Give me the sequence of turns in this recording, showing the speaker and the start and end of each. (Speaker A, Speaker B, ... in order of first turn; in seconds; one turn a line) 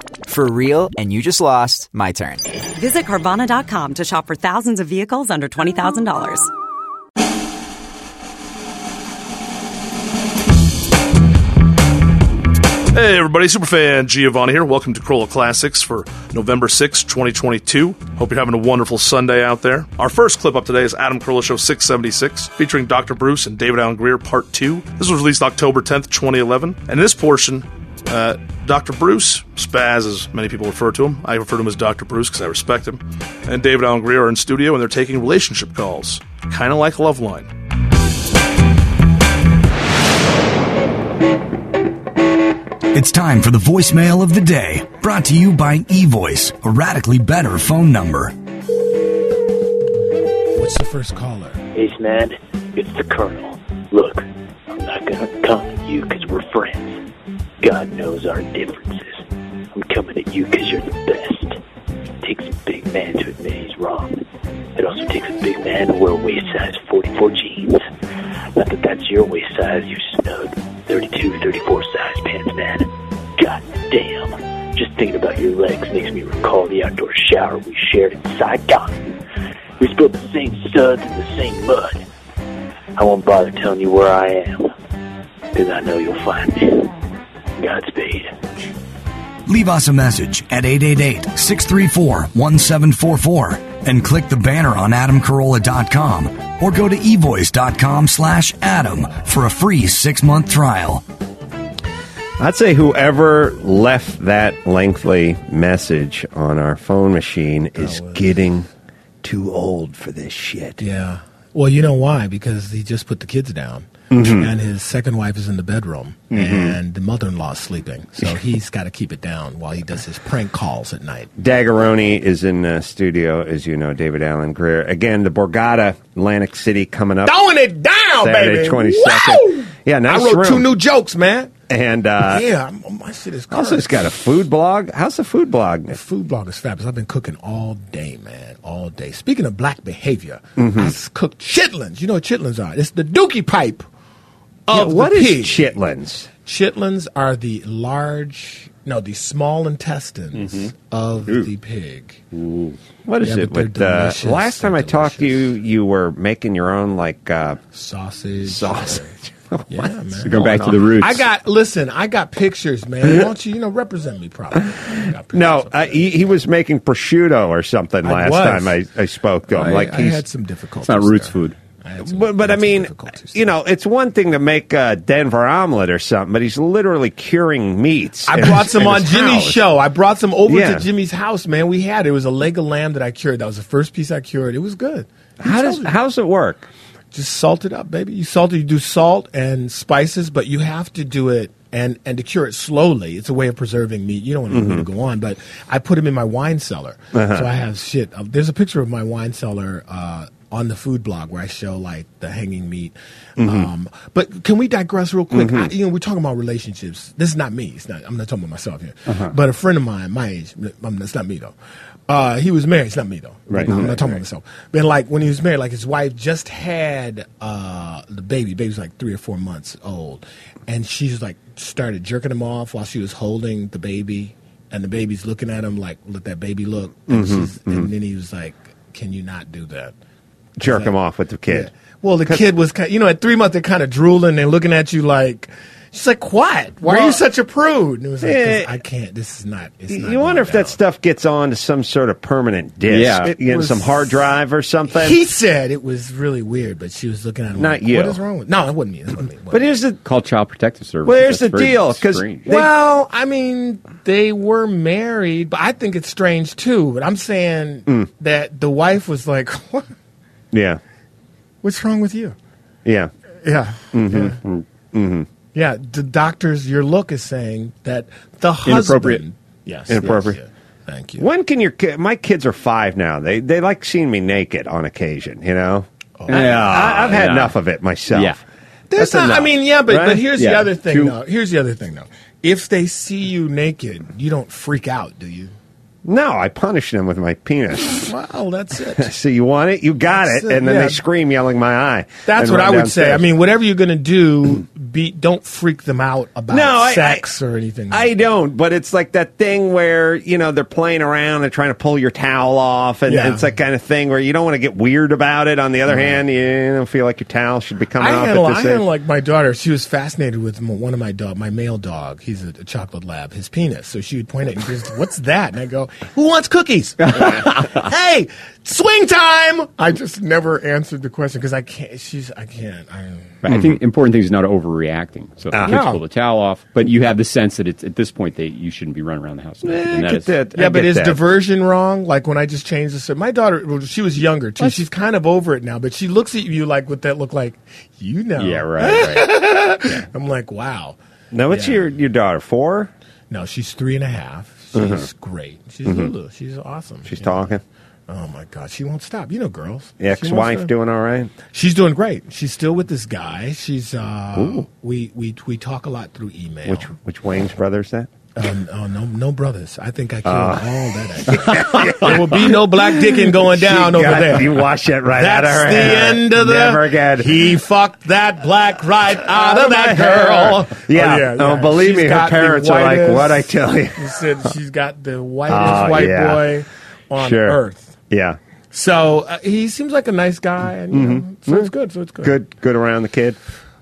Speaker A: 0.2-2.5
Speaker B: 2.8-6.5
Speaker C: 12.9-37.5
Speaker D: 42.9-48.3
Speaker E: 50.5-51.6
Speaker F: 51.7-57.0
Speaker F: 57.6-61.6
Speaker F: 62.2-64.2
Speaker F: 64.8-67.8
Speaker F: 68.5-79.1
Speaker F: 79.8-82.0
Speaker F: 83.0-84.7
Speaker F: 85.5-86.9
Speaker F: 87.6-88.3
Speaker D: 89.5-101.0
Speaker G: 102.4-108.7
Speaker E: 107.8-108.2
Speaker G: 109.2-110.8
Speaker E: 110.8-121.3
Speaker G: 114.1-114.5
Speaker G: 116.3-116.8
Speaker G: 121.4-127.4
Speaker E: 127.2-131.5
Speaker G: 128.2-130.7
Speaker G: 131.7-132.4
Speaker E: 132.2-133.9
Speaker G: 133.5-136.0
Speaker E: 135.9-143.8
Speaker G: 140.6-140.9
Speaker E: 144.7-145.7
Speaker G: 144.7-146.3
Speaker E: 146.4-152.2
Speaker H: 150.3-150.7
Speaker H: 152.3-152.8
Speaker G: 153.1-157.6
Speaker E: 153.2-155.5
Speaker E: 157.7-159.1
Speaker G: 158.4-160.9
Speaker E: 159.7-160.4
Speaker H: 160.2-161.2
Speaker E: 161.0-166.3
Speaker G: 164.6-170.2
Speaker E: 168.0-168.8
Speaker E: 169.5-173.5
Speaker H: 169.6-169.9
Speaker H: 170.8-171.6
Speaker G: 172.0-179.6
Speaker E: 178.2-185.9
Speaker G: 180.4-180.9
Speaker G: 185.4-186.7
Speaker E: 187.1-211.5
Speaker G: 194.5-194.9
Speaker G: 197.1-197.5
Speaker G: 203.4-203.7
Speaker G: 205.3-205.7
Speaker H: 209.1-209.3
Speaker E: 212.1-229.9
Speaker G: 213.5-214.2
Speaker G: 227.1-227.9
Speaker G: 230.6-231.7
Speaker E: 230.6-230.9
Speaker E: 231.5-240.8
Speaker G: 236.8-237.2
Speaker G: 238.2-238.7
Speaker G: 239.9-245.2
Speaker H: 242.9-243.3
Speaker E: 243.3-244.0
Speaker E: 244.9-249.7
Speaker G: 247.5-248.2
Speaker G: 249.5-250.0
Speaker H: 250.0-252.5
Speaker G: 251.0-252.7
Speaker E: 252.5-259.9
Speaker G: 260.5-260.8
Speaker E: 261.6-262.4
Speaker G: 262.8-263.1
Speaker E: 263.4-264.4
Speaker G: 263.9-264.4
Speaker G: 264.9-265.3
Speaker E: 265.5-271.3
Speaker H: 268.6-269.2
Speaker G: 269.9-270.4
Speaker G: 271.2-278.4
Speaker E: 276.2-276.7
Speaker H: 276.3-277.6
Speaker H: 278.1-278.4
Speaker E: 278.9-285.5
Speaker G: 278.9-280.2
Speaker H: 280.3-281.2
Speaker G: 286.0-288.1
Speaker E: 288.0-289.1
Speaker G: 289.0-293.3
Speaker E: 290.1-291.0
Speaker E: 292.2-298.1
Speaker G: 296.5-297.3
Speaker G: 297.9-308.8
Speaker E: 303.1-303.5
Speaker E: 305.9-306.2
Speaker E: 308.0-323.3
Speaker H: 323.4-330.4
Speaker G: 323.5-323.8
Speaker G: 325.5-326.0
Speaker E: 325.6-326.0
Speaker G: 329.6-331.2
Speaker E: 330.5-341.0
Speaker H: 338.4-340.0
Speaker G: 341.3-342.9
Speaker E: 341.5-341.9
Speaker E: 343.3-350.7
Speaker G: 344.7-345.1
Speaker G: 345.8-346.1
Speaker G: 347.1-347.6
Speaker G: 350.0-351.3
Speaker E: 351.5-356.9
Speaker G: 354.3-354.6
Speaker G: 356.6-358.1
Speaker E: 358.4-377.9
Speaker G: 360.2-360.7
Speaker G: 361.2-367.6
Speaker G: 369.2-374.0
Speaker G: 375.5-376.5
Speaker G: 377.1-378.4
Speaker E: 378.7-382.3
Speaker G: 380.9-383.4